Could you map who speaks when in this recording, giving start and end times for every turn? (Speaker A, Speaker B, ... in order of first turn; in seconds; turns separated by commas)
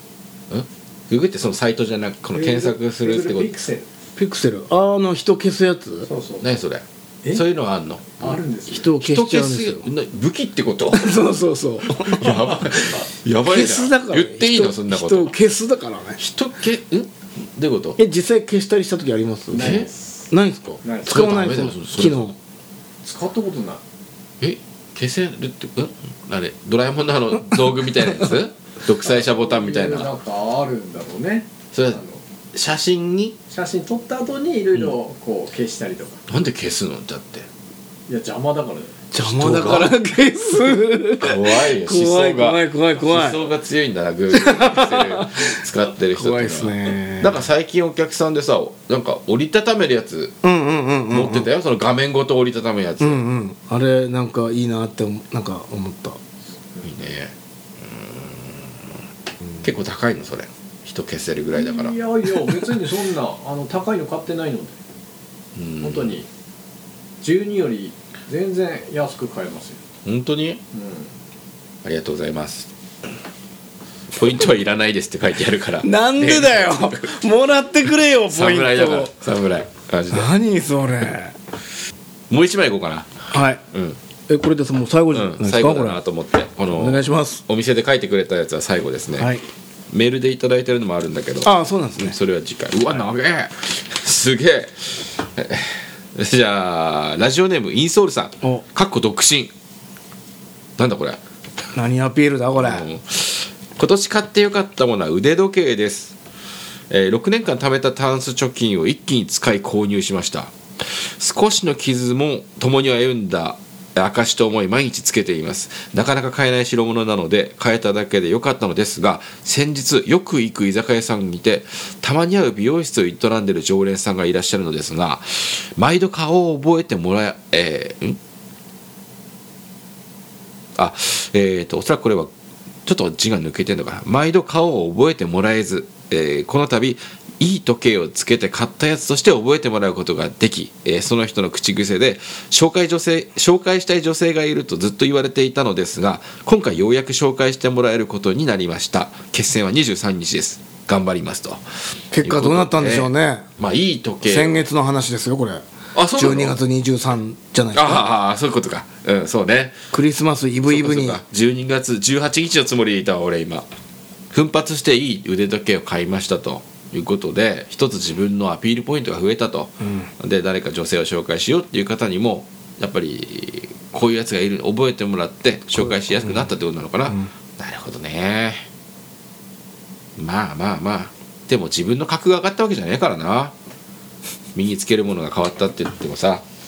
Speaker A: 0.5-3.5, Speaker B: 2.3-3.9, Speaker C: 4.2-6.1, Speaker B: 6.1-6.4, Speaker A: 6.4-11.2, Speaker B: 8.2-8.9, Speaker C: 8.7-9.9, Speaker C: 10.9-12.7, Speaker A: 11.9-15.3, Speaker C: 13.4-16.2, Speaker A: 16.2-18.0, Speaker C: 18.0-22.3, Speaker B: 19.5-20.3, Speaker A: 19.6-19.9, Speaker B: 20.8-21.2, Speaker A: 21.1-22.3, Speaker B: 23.0-23.8, Speaker A: 24.4-30.1, Speaker B: 29.1-32.2, Speaker A: 31.7-32.0, Speaker A: 32.5-33.4, Speaker B: 33.5-36.2, Speaker A: 36.3-37.5, Speaker B: 38.1-38.9, Speaker C: 39.1-43.4, Speaker A: 39.2-39.9, Speaker A: 41.2-50.4, Speaker C: 44.3-47.4, Speaker C: 50.4-51.5, Speaker A: 51.1-53.2, Speaker C: 53.0-56.2, Speaker A: 56.8-58.9, Speaker A: 59.6-62.0, Speaker B: 61.5-64.8, Speaker A: 65.5-66.2, Speaker B: 65.8-66.2, Speaker B: 67.2-69.8, Speaker A: 70.0-70.6, Speaker B: 70.7-71.1, Speaker A: 71.8-72.7, Speaker A: 74.1-77.0, Speaker C: 75.8-79.1, Speaker A: 78.3-80.3, Speaker C: 80.1-81.3, Speaker A: 82.3-84.0, Speaker C: 83.3-83.6, Speaker C: 84.3-86.0, Speaker A: 85.1-89.3, Speaker C: 86.7-87.4, Speaker C: 89.2-89.4, Speaker A: 89.9-99.5, Speaker C: 91.4-92.2, Speaker A: 100.8-101.2, Speaker C: 101.7-102.9, Speaker A: 102.6-106.1, Speaker A: 106.9-128.2, Speaker A: 130.8-132.3, Speaker A: 132.8-151.6, Speaker C: 152.1-153.5, Speaker A: 152.2-154.6, Speaker C: 154.2-158.1, Speaker A: 155.9-156.6, Speaker A: 157.7-159.8, Speaker C: 159.9-161.2, Speaker A: 160.7-163.7, Speaker A: 164.3-178.7, Speaker C: 169.8-170.1, Speaker C: 175.8-176.5, Speaker A: 180.2-183.5, Speaker A: 184.5-186.4